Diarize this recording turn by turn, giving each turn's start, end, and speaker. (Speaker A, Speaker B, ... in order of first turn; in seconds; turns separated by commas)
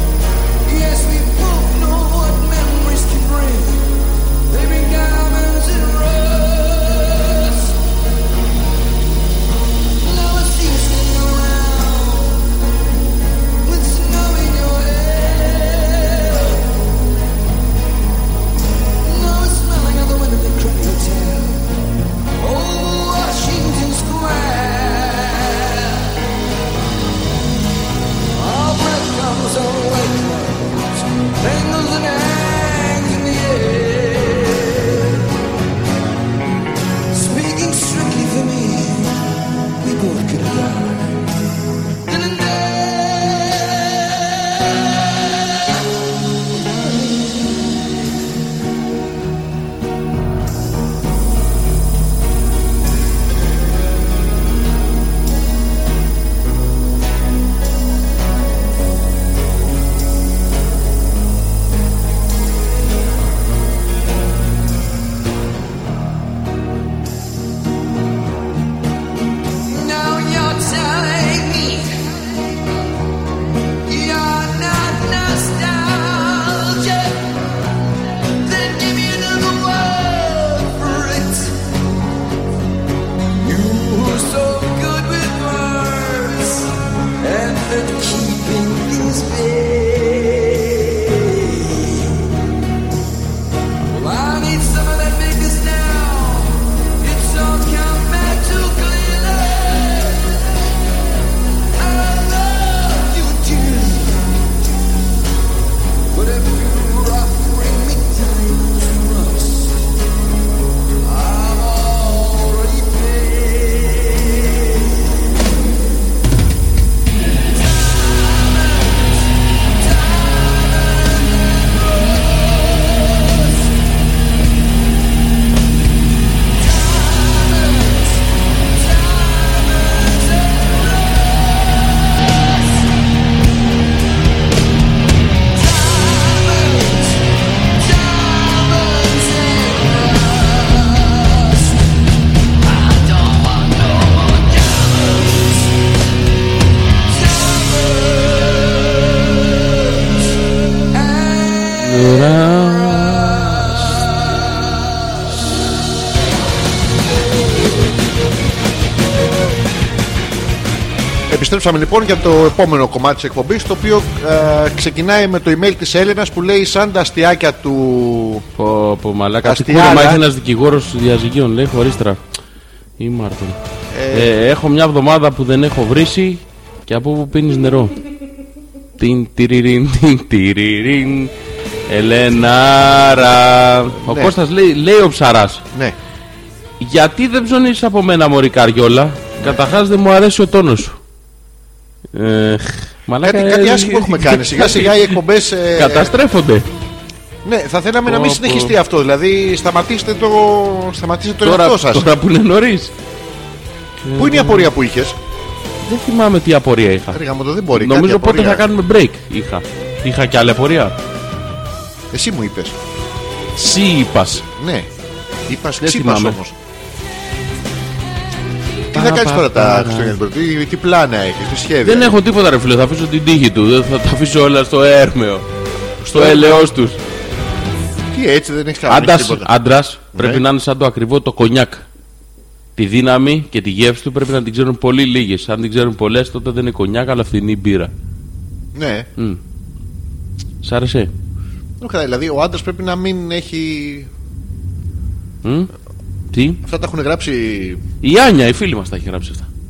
Speaker A: 0.7-3.9, Speaker A: 4.5-7.7, Speaker A: 10.0-12.4, Speaker A: 13.7-16.6, Speaker A: 19.1-21.6, Speaker A: 22.4-25.9, Speaker A: 28.4-35.1, Speaker A: 37.1-39.1, Speaker A: 39.8-41.2, Speaker A: 42.1-44.1, Speaker A: 69.7-72.0, Speaker A: 73.9-77.2, Speaker A: 78.4-81.6, Speaker A: 83.4-86.7, Speaker A: 87.2-91.9, Speaker A: 93.9-96.5, Speaker A: 97.0-100.2, Speaker A: 101.8-104.3, Speaker A: 106.1-109.8, Speaker A: 111.1-114.3, Speaker A: 127.1-128.0, Speaker A: 129.2-130.4, Speaker A: 135.8-137.0, Speaker A: 137.9-141.2, Speaker A: 144.1-144.6, Speaker A: 147.9-148.3, Speaker A: 151.0-151.7, Speaker B: 151.8-153.9, Speaker C: 161.3-168.4, Speaker B: 168.6-172.2, Speaker C: 169.4-170.2, Speaker B: 173.0-173.6, Speaker C: 173.9-174.3, Speaker B: 174.1-177.9, Speaker B: 179.0-181.3, Speaker B: 181.9-185.6, Speaker C: 184.1-184.3, Speaker B: 186.8-191.0, Speaker B: 192.1-195.2, Speaker C: 193.2-196.1, Speaker B: 195.8-196.7, Speaker C: 197.4-202.1, Speaker B: 198.1-198.8, Speaker B: 201.4-202.9, Speaker B: 204.0-204.7, Speaker C: 204.2-205.2, Speaker B: 205.8-207.2, Speaker C: 207.1-208.7, Speaker B: 207.7-211.0, Speaker C: 212.1-212.8, Speaker B: 213.6-214.4, Speaker C: 214.4-214.9, Speaker C: 215.5-216.6, Speaker B: 215.8-216.4, Speaker B: 218.9-220.2, Speaker C: 218.9-222.2, Speaker B: 221.8-225.5, Speaker C: 226.0-226.7, Speaker B: 226.1-227.0, Speaker C: 228.1-229.5, Speaker B: 228.9-231.8, Speaker C: 230.1-230.4, Speaker B: 232.8-237.9, Speaker C: 238.8-239.1, Speaker B: 240.6-241.1, Speaker C: 241.8-244.1, Speaker B: 245.4-245.7, Speaker B: 246.3-246.6, Speaker C: 246.6-247.8, Speaker B: 248.0-249.5